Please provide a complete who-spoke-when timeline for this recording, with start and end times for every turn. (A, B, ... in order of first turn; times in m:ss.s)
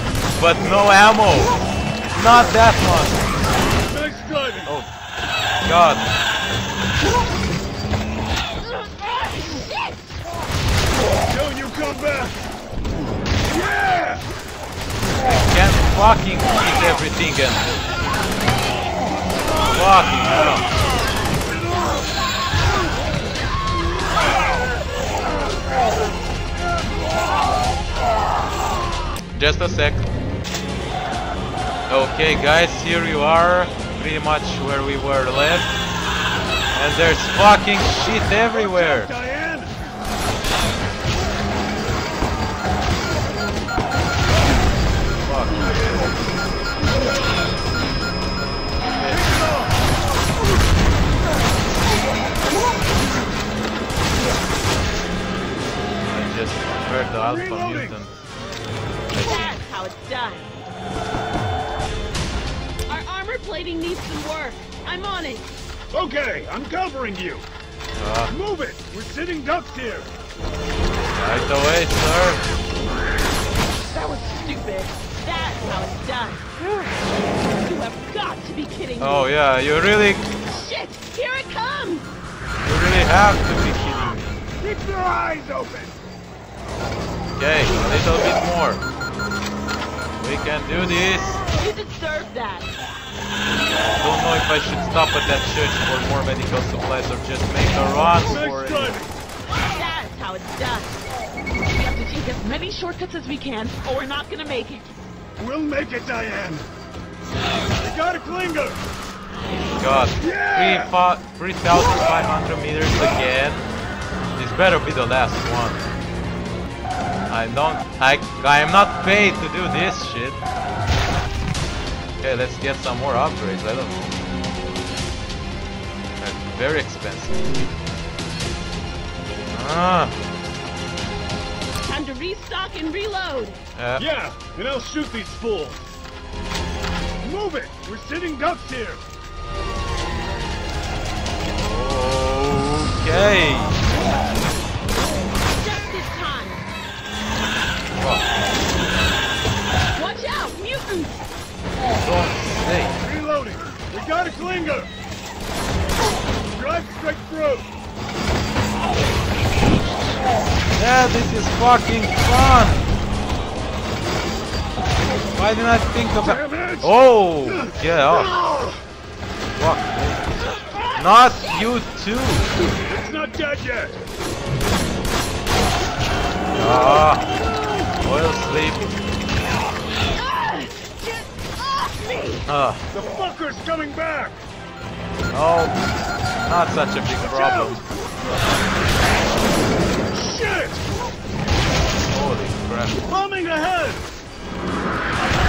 0:00.3-0:03.3 A
0:03.9-0:04.7 B
0:05.6-0:06.0 A
0:08.6-0:10.2 C
0:11.3-0:12.4 B
0:13.4-0:14.2 B
0:15.4-0:17.7 A
0:19.7-0:20.6 A
0:29.3-0:30.1 A
0:31.9-0:35.7 A
0:36.7-0:39.1 A
0:38.5-0:39.7 B
0:45.2-0:45.7 A
0:49.0-0:49.8 B
0:56.1-0:58.2 A
0:57.2-0:58.0 B
0:59.1-0:59.6 A
0:59.1-1:00.6 C
1:02.9-1:05.5 C
1:05.9-1:07.5 B
1:08.0-1:08.3 A
1:08.3-1:10.1 B
1:11.1-1:12.4 A
1:13.9-1:16.5 C
1:16.6-1:16.9 A
1:17.6-1:19.3 C
1:19.0-1:20.2 A
1:20.5-1:22.1 C
1:22.6-1:24.3 A
1:24.6-1:26.0 B
1:27.4-1:28.8 A
1:30.2-1:31.4 A
1:31.6-1:32.7 C
1:34.0-1:39.0 A
1:38.2-1:39.1 B
1:39.5-1:41.0 C
1:41.7-1:44.9 C
1:45.4-1:46.7 B
1:47.8-1:48.8 B
1:49.7-1:53.7 A
1:50.2-1:50.9 B
1:54.4-1:55.8 A
1:57.3-2:00.4 A
2:02.2-2:04.2 A
2:06.2-2:07.4 A
2:09.5-2:10.1 A
2:11.8-2:13.6 C
2:13.8-2:14.0 A
2:14.0-2:15.9 B
2:17.2-2:19.0 B
2:21.5-2:23.9 A
2:25.5-2:26.7 C
2:27.9-2:28.3 A
2:29.9-2:31.2 C
2:31.9-2:33.0 A
2:33.0-2:34.9 B
2:36.5-2:37.7 B
2:40.8-2:43.0 A
2:45.3-2:48.3 A
2:46.2-2:48.8 B
2:49.5-2:50.4 A
2:51.0-2:52.5 A
2:52.9-2:54.0 B
2:56.5-2:57.3 A
2:58.0-2:58.9 A
3:00.1-3:02.4 C
3:02.4-3:02.8 A
3:02.9-3:04.4 B
3:05.3-3:05.8 A
3:06.4-3:07.8 A
3:07.2-3:08.0 B
3:10.1-3:10.8 B
3:12.0-3:13.0 A
3:13.1-3:14.0 B